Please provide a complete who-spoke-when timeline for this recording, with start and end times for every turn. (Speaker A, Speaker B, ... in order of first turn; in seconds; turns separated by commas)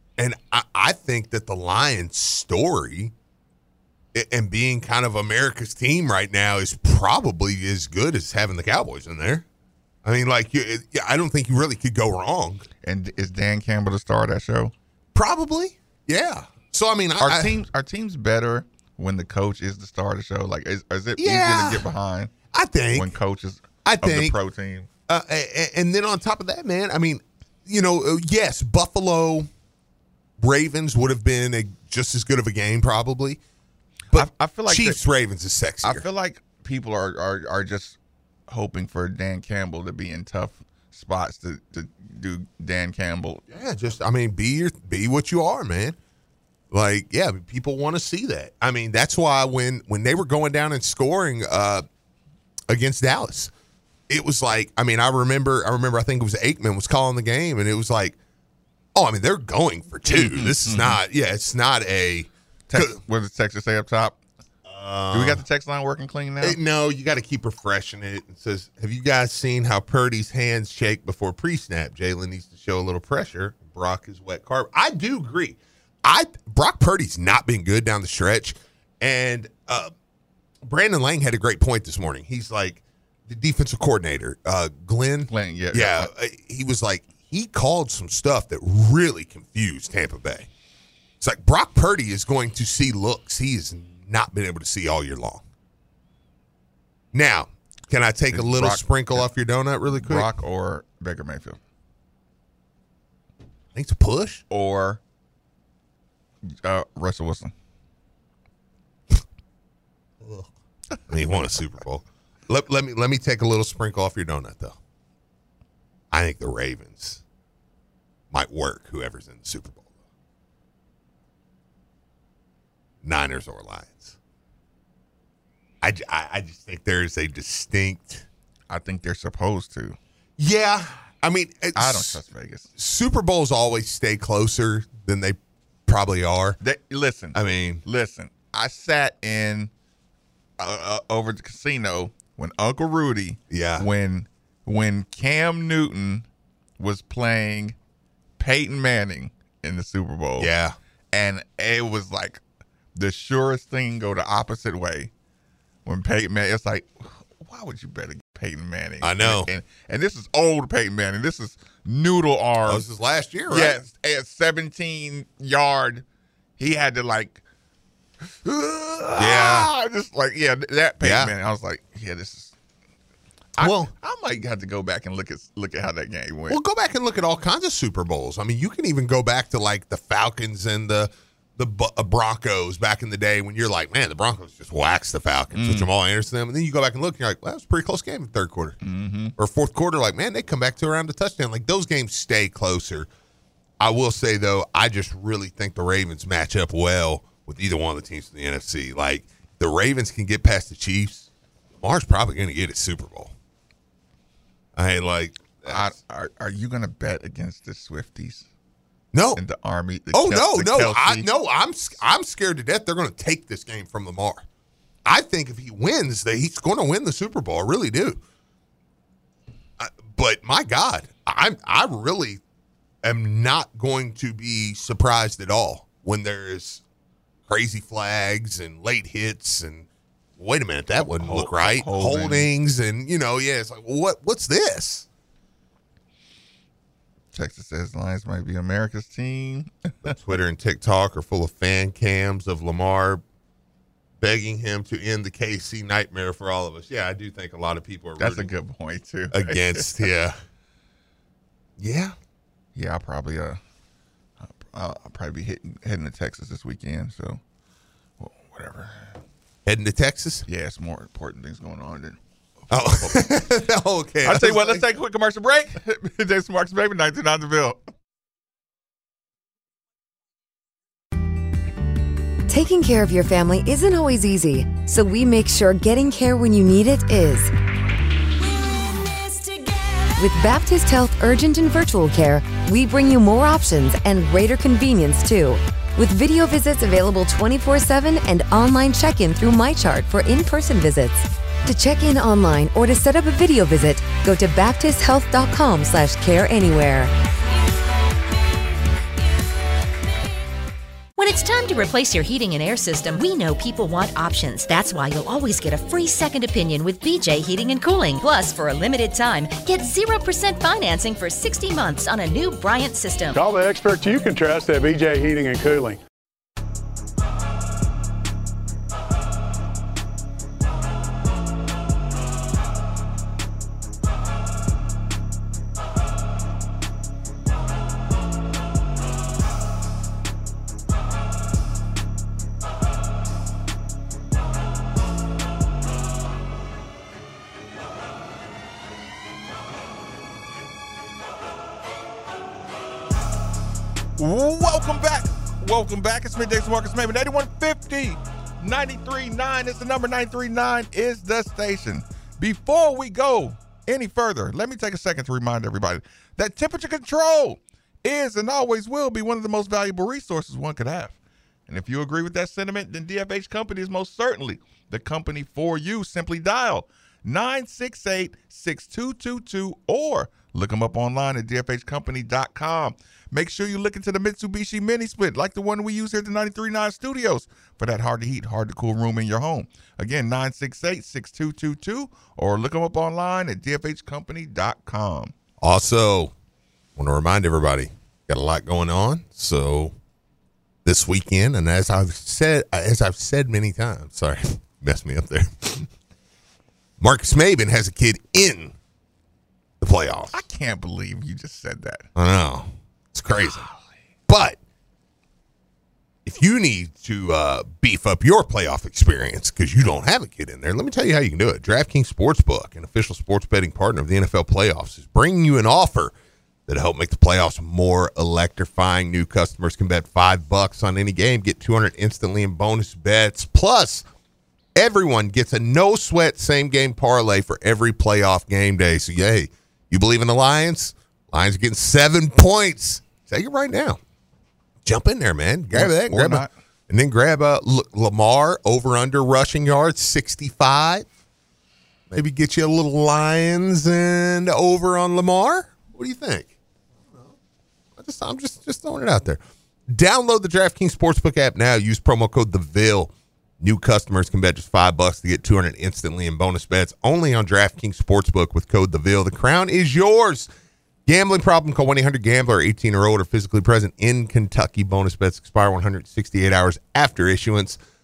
Speaker A: 0.2-3.1, Speaker A: 4.1-9.4, Speaker A: 10.0-12.7, Speaker B: 12.8-14.7, Speaker A: 15.1-17.6, Speaker B: 17.2-22.3, Speaker A: 21.2-21.9, Speaker A: 22.5-23.1, Speaker B: 22.9-24.9, Speaker A: 23.8-24.4, Speaker A: 25.1-29.5, Speaker A: 30.4-33.4, Speaker A: 34.1-36.0, Speaker B: 34.1-35.0, Speaker B: 35.8-38.0, Speaker B: 38.5-43.4, Speaker A: 43.5-46.0, Speaker A: 46.7-51.9, Speaker A: 52.7-53.5, Speaker A: 54.1-58.2, Speaker A: 58.9-63.0, Speaker B: 60.1-61.0, Speaker B: 62.7-64.2, Speaker A: 64.7-65.4, Speaker B: 65.1-66.6, Speaker A: 66.4-79.9, Speaker A: 80.6-90.5, Speaker B: 85.3-86.1, Speaker A: 91.2-95.4, Speaker A: 97.1-100.3, Speaker B: 98.3-99.3, Speaker B: 99.9-101.6, Speaker A: 103.7-104.4, Speaker B: 104.5-105.0, Speaker B: 106.4-107.5, Speaker A: 110.2-110.5, Speaker A: 111.1-114.8, Speaker A: 116.1-117.2, Speaker A: 118.3-119.9, Speaker A: 123.0-124.2, Speaker A: 125.8-128.2, Speaker B: 128.7-130.0, Speaker A: 130.4-132.2, Speaker B: 131.7-132.7, Speaker A: 132.8-136.6, Speaker B: 136.6-139.7, Speaker A: 137.3-137.8, Speaker B: 140.6-146.2, Speaker A: 143.5-143.9, Speaker B: 146.8-147.8, Speaker B: 148.4-150.5, Speaker A: 150.4-150.8, Speaker B: 151.1-152.4, Speaker B: 152.9-155.1, Speaker B: 155.8-162.8, Speaker A: 159.0-159.5, Speaker A: 162.7-163.8, Speaker B: 163.5-166.0, Speaker B: 166.6-167.4, Speaker A: 168.4-169.7, Speaker B: 169.1-172.5, Speaker A: 171.0-171.3, Speaker B: 173.6-176.6, Speaker A: 173.6-173.9, Speaker A: 176.5-188.8, Speaker B: 185.5-185.9, Speaker B: 188.8-189.3, Speaker A: 189.3-193.1, Speaker A: 193.8-201.3, Speaker A: 201.8-203.3, Speaker A: 204.8-205.9, Speaker B: 205.6-208.5, Speaker A: 209.1-209.4, Speaker B: 209.3-211.3, Speaker A: 210.1-214.4, Speaker A: 215.1-218.2, Speaker A: 219.8-222.4, Speaker A: 223.0-226.8, Speaker A: 227.4-235.1, Speaker B: 231.1-232.5, Speaker B: 237.3-240.2, Speaker A: 240.0-243.2, Speaker A: 244.2-248.5, Speaker B: 248.2-250.0, Speaker A: 249.3-250.3, Speaker A: 251.8-252.1, Speaker B: 252.7-253.6, Speaker B: 254.5-257.4, Speaker B: 258.2-259.1, Speaker A: 259.6-260.4, Speaker B: 260.5-262.2, Speaker A: 262.7-264.9, Speaker B: 262.9-263.4, Speaker B: 264.2-267.8, Speaker C: 272.5-277.5, Speaker C: 280.1-297.1, Speaker D: 301.2-313.4, Speaker E: 313.3-316.0, Speaker B: 344.2-361.1, Speaker B: 361.7-385.3, Speaker A: 385.6-386.3, Speaker A: 386.9-389.9, Speaker A: 390.8-395.9, Speaker A: 397.0-398.7, Speaker A: 399.8-400.4, Speaker B: 400.3-402.1, Speaker A: 402.1-403.6, Speaker A: 404.3-404.6, Speaker A: 406.2-416.1, Speaker A: 416.7-424.1, Speaker A: 424.8-434.0, Speaker A: 434.8-441.1, Speaker B: 435.7-436.5, Speaker A: 442.1-446.5, Speaker A: 447.1-447.3, Speaker A: 447.9-460.5, Speaker A: 461.1-467.8